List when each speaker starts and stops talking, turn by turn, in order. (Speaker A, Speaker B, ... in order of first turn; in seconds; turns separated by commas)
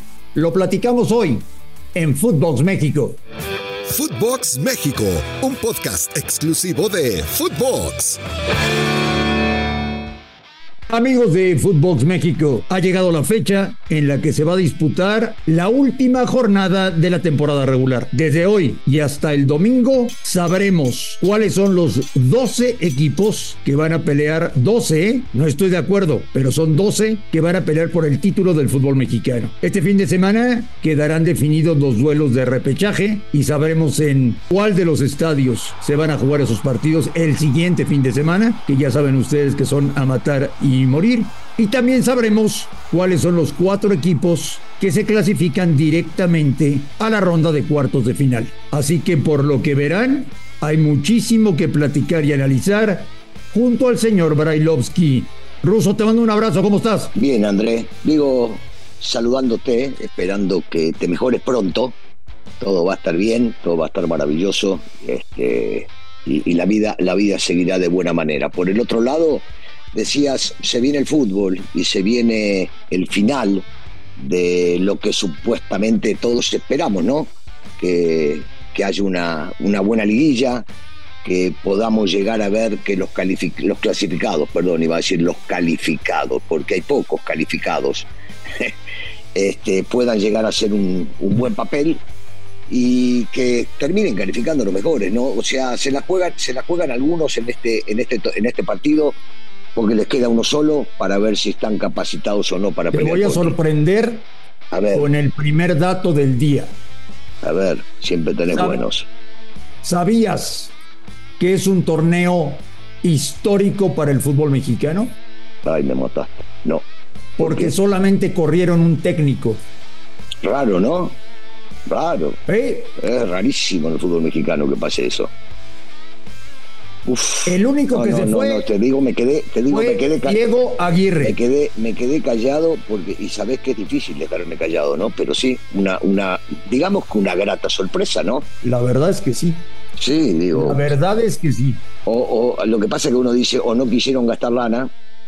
Speaker A: 0.3-3.2, Speaker B: 3.9-8.2, Speaker A: 3.9-5.0, Speaker A: 5.7-8.0, Speaker A: 10.9-57.1, Speaker C: 57.2-62.0, Speaker C: 62.6-80.7, Speaker C: 81.2-88.7, Speaker C: 89.3-92.0, Speaker C: 92.7-99.2, Speaker C: 99.8-103.6, Speaker A: 102.9-104.2, Speaker C: 104.7-105.1, Speaker A: 104.9-106.7, Speaker C: 107.4-109.1, Speaker A: 108.5-108.8, Speaker A: 109.8-110.7, Speaker A: 111.4-115.2, Speaker C: 115.6-116.9, Speaker A: 117.4-119.6, Speaker C: 117.4-117.7, Speaker C: 120.4-121.2, Speaker C: 121.9-122.4, Speaker A: 122.5-122.9, Speaker C: 123.0-125.3, Speaker C: 127.0-130.5, Speaker A: 127.5-128.7, Speaker A: 129.7-131.4, Speaker C: 131.2-138.4, Speaker A: 138.6-139.6, Speaker C: 140.0-140.9, Speaker A: 140.5-141.8, Speaker C: 142.1-144.9